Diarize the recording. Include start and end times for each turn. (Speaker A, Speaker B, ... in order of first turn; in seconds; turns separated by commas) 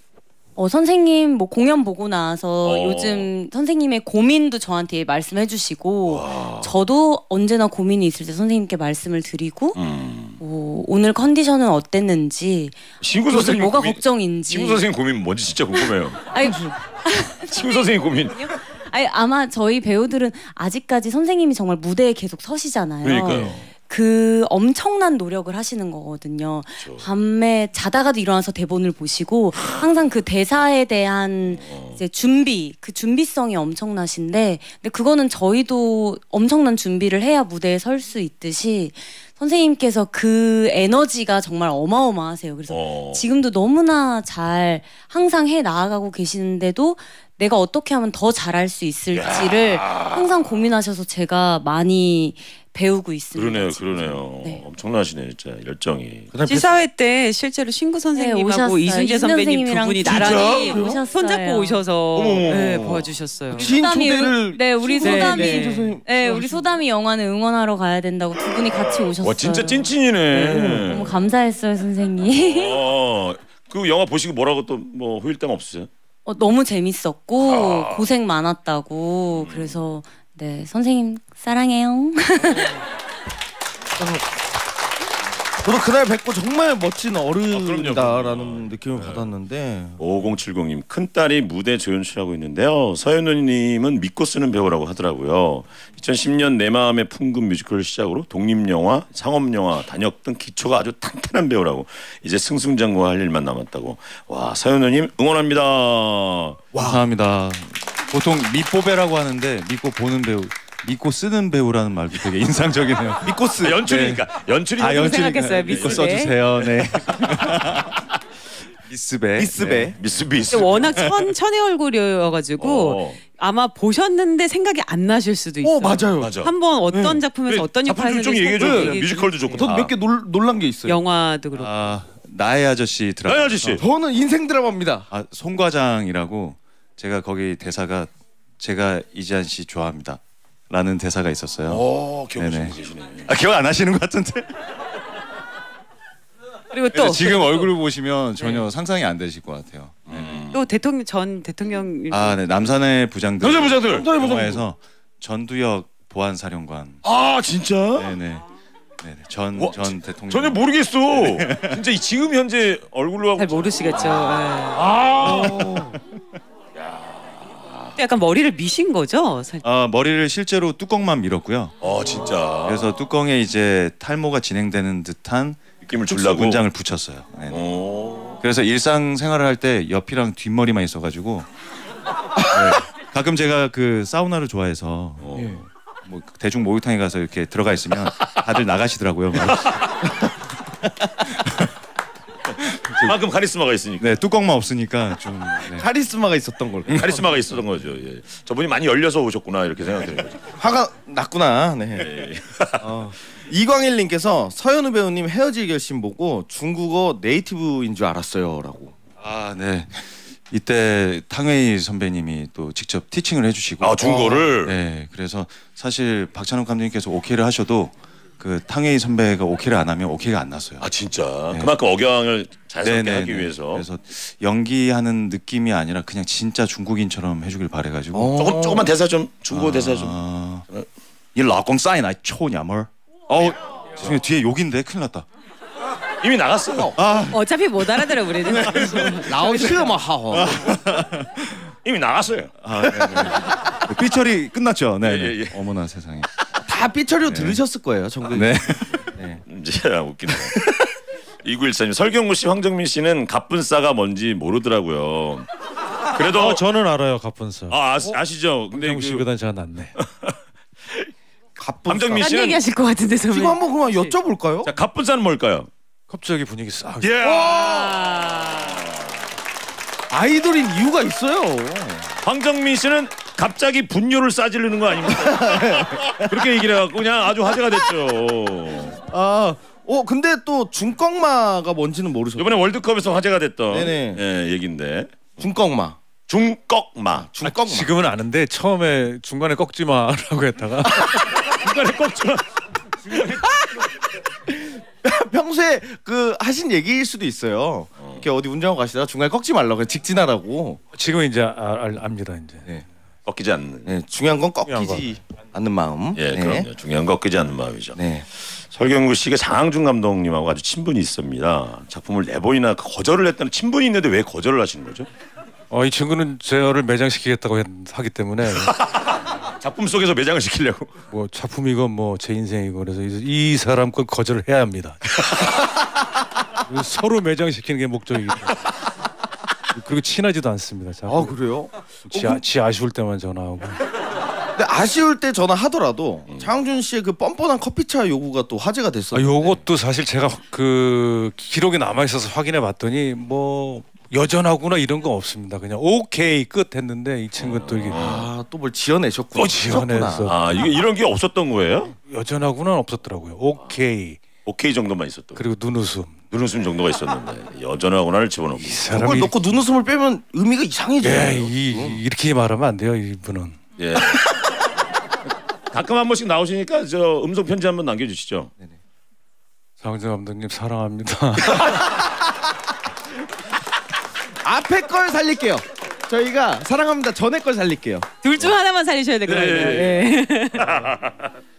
Speaker A: 0.6-9.8, Speaker B: 2.6-3.3, Speaker B: 6.1-6.7, Speaker B: 9.8-10.4, Speaker A: 10.4-12.8, Speaker B: 13.0-16.3, Speaker A: 13.3-14.8, Speaker A: 15.7-54.6, Speaker B: 17.4-18.5, Speaker B: 23.0-23.7, Speaker C: 23.3-23.6, Speaker B: 26.8-27.1, Speaker B: 29.6-29.9, Speaker B: 31.5-32.0, Speaker B: 42.7-43.2, Speaker B: 49.1-50.5, Speaker B: 53.3-56.3, Speaker C: 56.3-56.7, Speaker D: 56.5-63.7, Speaker A: 58.1-61.8, Speaker B: 60.1-60.7, Speaker C: 60.1-61.0, Speaker B: 62.1-63.0, Speaker C: 63.5-66.7, Speaker A: 63.6-72.8, Speaker D: 65.0-66.0, Speaker B: 69.2-71.3, Speaker C: 70.4-71.0, Speaker B: 72.3-75.9, Speaker A: 76.2-82.8, Speaker B: 77.4-78.1, Speaker B: 79.3-79.8, Speaker C: 84.0-84.2, Speaker C: 85.6-90.0, Speaker B: 87.5-89.3, Speaker B: 90.0-106.6, Speaker C: 106.7-107.0, Speaker E: 106.8-114.3, Speaker C: 113.2-113.8, Speaker B: 113.6-116.0, Speaker E: 114.8-118.0, Speaker D: 114.8-116.3, Speaker B: 116.6-117.2, Speaker E: 118.9-120.0, Speaker C: 119.4-120.0, Speaker B: 120.0-121.0, Speaker D: 120.5-129.7, Speaker B: 122.6-123.2, Speaker C: 125.6-127.2, Speaker B: 126.2-126.5, Speaker B: 127.5-129.9, Speaker C: 128.6-129.0, Speaker C: 129.6-131.0, Speaker D: 130.9-131.7, Speaker E: 131.5-133.8, Speaker B: 133.3-133.8, Speaker C: 133.8-135.1, Speaker E: 135.1-141.8, Speaker B: 141.7-143.3, Speaker E: 142.4-144.8, Speaker D: 146.7-147.7, Speaker E: 146.9-150.4, Speaker D: 148.4-148.7, Speaker B: 150.1-150.6, Speaker D: 150.5-152.4, Speaker E: 152.1-157.0, Speaker B: 153.4-154.1, Speaker C: 154.0-154.6, Speaker B: 157.0-158.2, Speaker E: 157.9-158.4, Speaker E: 159.0-161.8, Speaker B: 159.6-165.7, Speaker D: 163.4-164.8, Speaker E: 165.2-165.6, Speaker C: 165.2-165.9, Speaker B: 166.8-167.9, Speaker D: 168.0-169.6, Speaker E: 169.6-177.7, Speaker B: 171.8-172.9, Speaker B: 175.8-176.6, Speaker B: 177.5-178.4, Speaker E: 178.4-181.5, Speaker C: 182.4-182.8, Speaker E: 182.5-185.4, Speaker B: 185.2-185.6, Speaker C: 185.3-185.6, Speaker E: 186.1-190.3, Speaker B: 189.5-189.9, Speaker E: 191.2-191.7, Speaker E: 192.6-193.1, Speaker B: 193.0-194.1, Speaker E: 194.0-195.9, Speaker C: 195.7-197.4, Speaker B: 196.9-200.5, Speaker C: 200.6-202.1, Speaker B: 202.0-202.9, Speaker C: 202.8-208.9, Speaker E: 209.2-220.9, Speaker B: 213.8-214.8, Speaker B: 220.8-223.8, Speaker E: 222.8-228.4, Speaker C: 228.1-228.9, Speaker B: 228.4-230.2, Speaker E: 229.5-230.7, Speaker E: 231.3-235.3, Speaker B: 236.2-237.0, Speaker C: 236.8-237.3, Speaker E: 237.0-237.3, Speaker D: 237.3-239.9, Speaker C: 238.4-240.8, Speaker E: 240.3-241.7, Speaker B: 241.8-243.5, Speaker E: 242.6-246.3, Speaker B: 245.0-245.6, Speaker C: 246.7-248.6, Speaker E: 247.3-247.6, Speaker E: 248.3-249.1, Speaker C: 249.2-249.4, Speaker B: 249.5-250.7, Speaker B: 251.4-255.5, Speaker B: 256.1-256.6, Speaker F: 256.2-258.1, Speaker B: 257.7-259.2, Speaker F: 258.7-259.9, Speaker B: 260.0-260.4, Speaker C: 261.6-262.3, Speaker B: 261.9-262.6, Speaker D: 262.2-264.2, Speaker C: 263.3-264.7, Speaker B: 264.6-265.7, Speaker F: 266.1-267.2, Speaker B: 267.0-269.0, Speaker C: 267.2-268.1, Speaker C: 270.1-272.1, Speaker B: 272.2-279.0, Speaker C: 275.1-276.3, Speaker C: 279.1-282.5, Speaker B: 282.4-285.1, Speaker C: 283.7-284.2, Speaker C: 285.4-286.0, Speaker B: 286.3-287.3, Speaker C: 287.2-288.0, Speaker F: 287.4-291.1, Speaker B: 290.9-292.4, Speaker B: 293.1-293.4, Speaker C: 293.2-293.9, Speaker C: 294.5-300.8, Speaker B: 298.0-298.2, Speaker F: 300.9-302.7, Speaker B: 303.3-303.9, Speaker C: 303.9-306.7, Speaker F: 304.6-305.1, Speaker B: 306.1-315.1, Speaker C: 307.9-308.2, Speaker F: 315.7-318.7, Speaker B: 318.6-320.9, Speaker F: 321.1-325.0, Speaker F: 326.7-328.6, Speaker F: 329.7-333.8, Speaker C: 331.1-332.4, Speaker C: 334.6-339.6, Speaker B: 336.3-336.5, Speaker F: 339.1-348.0, Speaker B: 347.4-348.3, Speaker C: 347.9-350.4, Speaker F: 349.4-350.7, Speaker B: 350.2-351.9, Speaker F: 352.1-354.2, Speaker B: 354.4-355.4, Speaker F: 355.4-356.2, Speaker B: 356.3-358.8, Speaker F: 358.6-359.3, Speaker C: 358.9-362.0, Speaker F: 361.0-363.6, Speaker B: 363.8-364.3, Speaker B: 365.7-368.5, Speaker F: 369.8-371.6, Speaker C: 374.4-378.1, Speaker D: 378.2-380.7, Speaker B: 379.3-380.0, Speaker B: 380.6-381.3